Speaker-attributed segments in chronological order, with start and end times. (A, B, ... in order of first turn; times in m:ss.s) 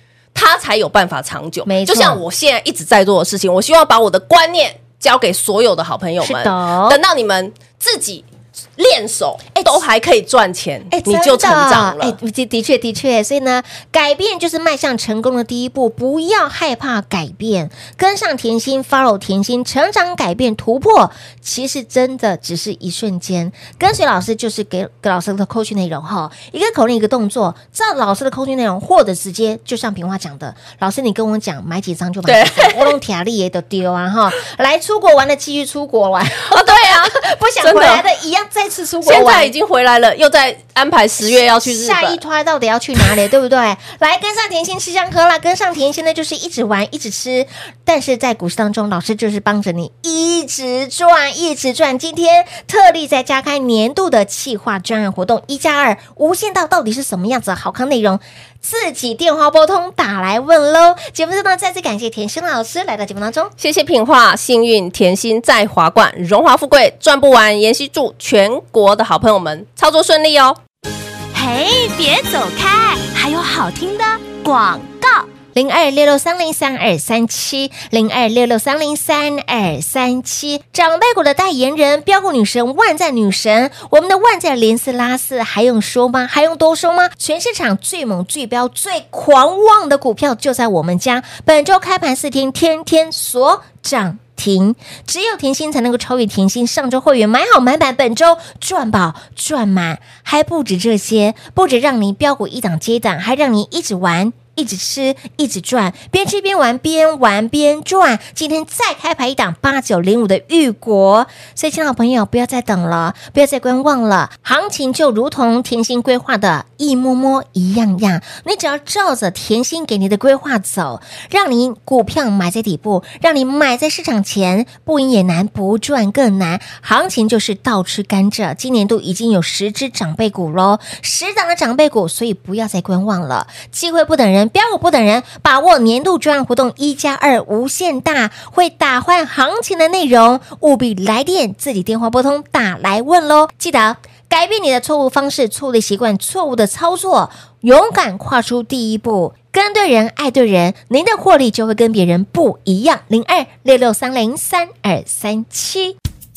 0:00.3-0:12.2 A
0:01.7-0:02.2 B
0:06.2-0:07.0 B
0:10.9-0:39.5 B
0:32.3-0:33.0 A
0:36.4-0:38.0 A
0:39.0-0:42.2 A
0:41.2-1:03.5 B
1:03.6-1:10.6 A
1:11.3-1:15.2 C
1:15.5-2:36.0 B